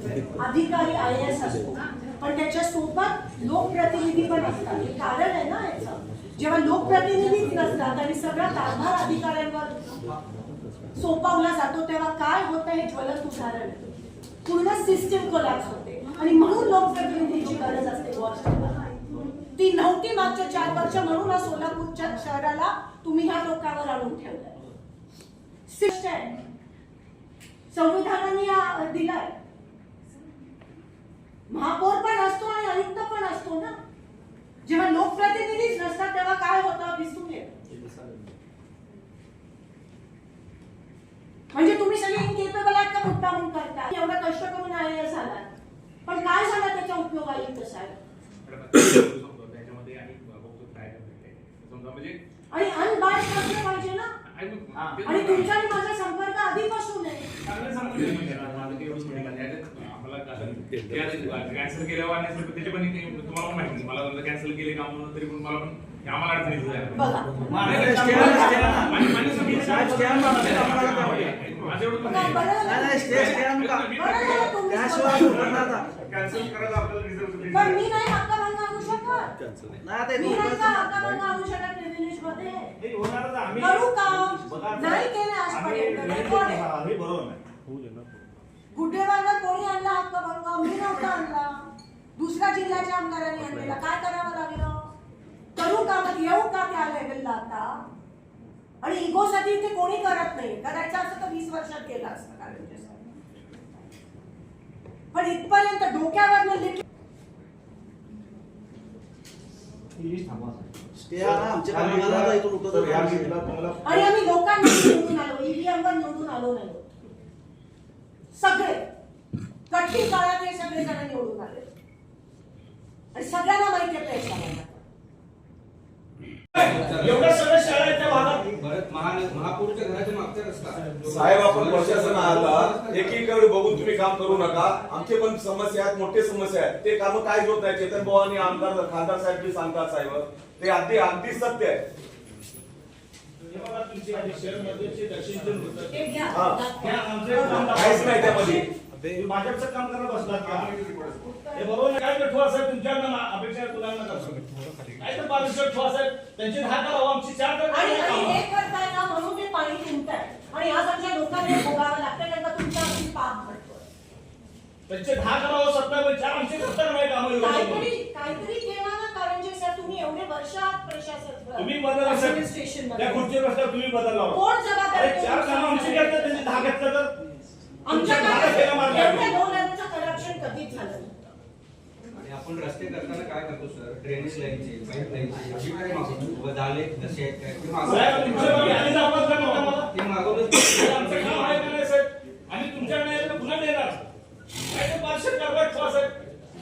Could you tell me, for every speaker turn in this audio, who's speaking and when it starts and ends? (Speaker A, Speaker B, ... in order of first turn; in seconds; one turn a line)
Speaker A: 0.3-9.7
Speaker A: 10.9-13.9
Speaker A: 14.4-18.8
Speaker A: 19.5-24.6
Speaker A: 25.7-26.3
Speaker A: 27.7-29.4
Speaker A: 31.5-33.8
Speaker A: 34.6-37.5
Speaker A: 41.5-45.5
Speaker A: 46.0-48.0
Speaker B: 48.4-52.2
Speaker A: 52.5-54.1
Speaker B: 54.2-55.5
Speaker C: 54.7-55.0
Speaker A: 55.0-57.3
Speaker C: 57.4-58.1
Speaker B: 57.9-67.1
Speaker A: 66.9-68.2
Speaker C: 67.5-68.9
Speaker B: 67.6-74.6
Speaker D: 67.7-71.3
Speaker C: 69.4-70.2
Speaker A: 72.0-75.6
Speaker D: 72.6-75.9
Speaker B: 75.3-75.8
Speaker C: 75.5-77.8
Speaker A: 77.5-79.3
Speaker D: 79.7-80.9
Speaker A: 80.1-82.7
Speaker C: 82.8-87.4
Speaker A: 83.6-86.7
Speaker A: 88.7-94.9
Speaker A: 95.5-97.8
Speaker A: 98.8-103.0
Speaker A: 105.1-106.8
Speaker C: 110.0-110.6
Speaker D: 111.0-113.4
Speaker E: 111.2-113.7
Speaker C: 113.0-113.3
Speaker A: 113.8-116.9
Speaker A: 118.3-118.8
Speaker A: 119.7-121.7
Speaker A: 123.1-124.8
Speaker F: 126.5-127.4
Speaker C: 126.5-128.5
Speaker F: 128.5-133.2
Speaker E: 131.0-141.8
Speaker C: 143.5-148.6
Speaker A: 145.9-147.8
Speaker E: 146.3-146.6
Speaker E: 147.3-148.6
Speaker C: 149.2-150.7
Speaker C: 151.5-154.4
Speaker C: 155.0-158.4
Speaker A: 157.7-163.9
Speaker C: 164.9-167.9
Speaker A: 167.4-173.3
Speaker C: 171.6-172.4
Speaker C: 173.0-174.4
Speaker A: 174.3-176.7
Speaker C: 174.9-177.2
Speaker A: 177.8-181.3
Speaker C: 177.8-179.3
Speaker F: 182.2-188.9
Speaker C: 187.8-189.9
Speaker F: 189.8-191.7
Speaker C: 190.5-194.0
Speaker C: 194.7-196.1